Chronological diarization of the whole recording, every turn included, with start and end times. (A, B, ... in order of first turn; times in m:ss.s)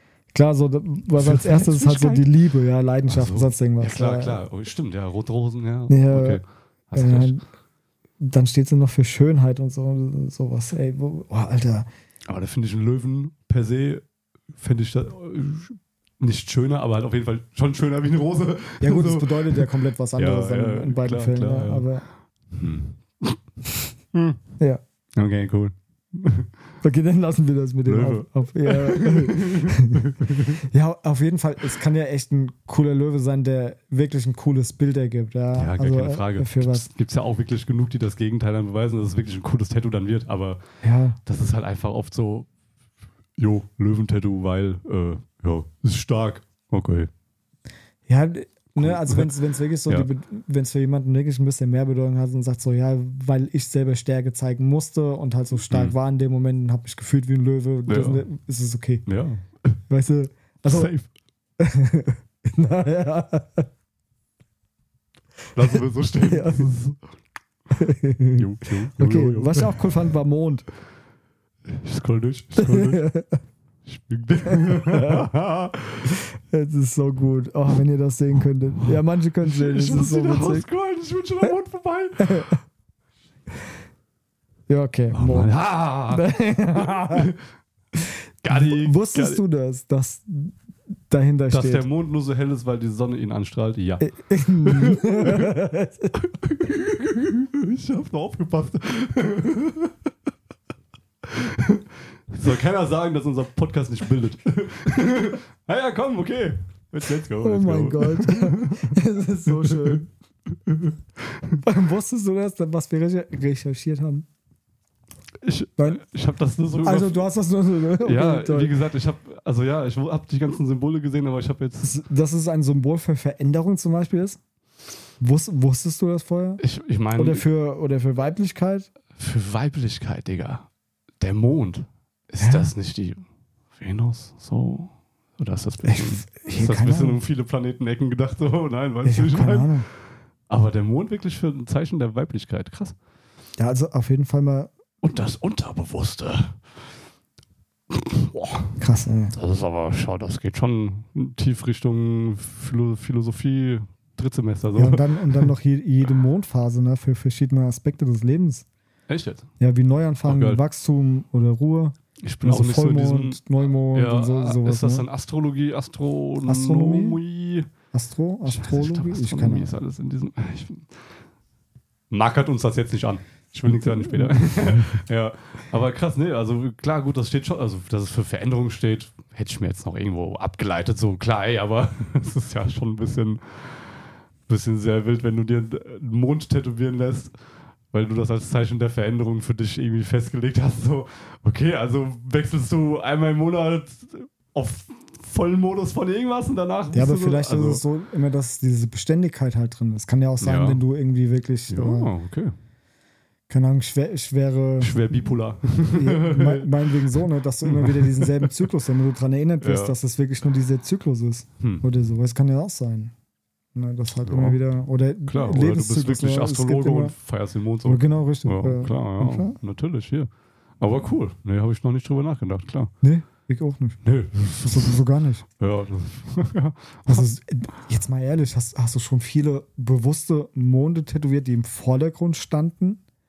0:00.3-0:04.4 A
0:01.1-0:02.3 B
0:03.1-0:07.4 B
0:05.9-0:06.4 A
0:06.9-0:07.4 A
0:08.2-0:11.9 A
0:12.3-0:14.0 B
0:14.6-0:19.6 B
0:18.8-0:22.0 A
0:20.2-0:21.9 B
0:22.5-0:23.4 B
0:24.1-0:24.4 B
0:25.2-0:26.5 B
0:26.8-0:36.9 A
0:27.8-0:30.6 B
0:35.5-0:40.6 B
0:40.8-0:41.2 A
0:41.2-0:42.5 B
0:43.4-0:47.1 B
0:48.1-0:59.0 A
0:48.8-0:49.3 B
0:55.7-0:55.9 B
0:57.9-0:58.2 B
0:59.0-0:59.8 B
0:59.9-1:00.9 A
1:00.6-1:01.1 B
1:01.6-1:03.7 A
1:05.5-1:07.0 B
1:05.7-1:06.7 A
1:07.7-1:10.6 A
1:08.4-1:09.8 B
1:11.7-1:13.0 B
1:12.6-1:13.4 A
1:13.8-1:16.2 B
1:14.5-1:15.3 A
1:16.1-1:20.6 A
1:18.8-1:22.6 B
1:22.2-1:22.6 A
1:24.7-1:25.5 A
1:25.1-1:27.4 B
1:26.1-1:27.3 A
1:28.4-1:29.4 B
1:28.5-1:30.6 A
1:31.1-1:31.8 A
1:31.5-1:34.1 B
1:34.0-1:36.1 A
1:34.6-1:35.6 B
1:36.1-1:39.9 B
1:41.2-1:51.6 B
1:47.4-1:50.0 A
1:51.6-1:54.2 A
1:55.4-1:57.2 B
1:56.8-1:58.7 A
1:58.0-2:02.0 B
2:01.8-2:04.4 A
2:05.2-2:06.6 A
2:06.6-2:07.4 B
2:07.2-2:08.9 A
2:09.2-2:10.7 B
2:11.2-2:13.2 B
2:12.4-2:12.7 A
2:13.8-2:19.8 B
2:15.8-2:17.2 A
2:19.0-2:19.9 A
2:20.5-2:23.0 B
2:23.6-2:24.7 A
2:25.0-2:26.6 B
2:27.9-2:28.8 B
2:28.8-2:29.3 A
2:29.3-2:35.5 B
2:34.7-2:38.6 A
2:39.1-2:39.5 B
2:39.6-2:45.0 A
2:40.2-2:40.6 B
2:42.2-2:47.7 B
2:46.4-2:47.2 A
2:47.9-2:49.7 A
2:48.4-2:50.9 B
2:52.1-3:03.7 B
2:53.7-2:55.0 A
3:04.5-3:07.3 B
3:07.9-3:17.8 B
3:16.9-3:22.1 A
3:20.4-3:20.8 B
3:21.7-3:22.5 B
3:23.5-3:25.2 A
3:24.8-3:28.7 B
3:25.9-3:33.1 A
3:29.6-3:29.9 B
3:31.6-3:31.8 B
3:33.7-3:37.1 A
3:34.2-3:34.6 B
3:35.3-3:40.3 B
3:37.8-3:39.6 A
3:40.8-3:42.9 B
3:43.0-3:44.0 A
3:44.0-3:45.0 B
3:44.6-3:45.4 A
3:45.6-3:47.3 B
3:47.1-3:53.0 A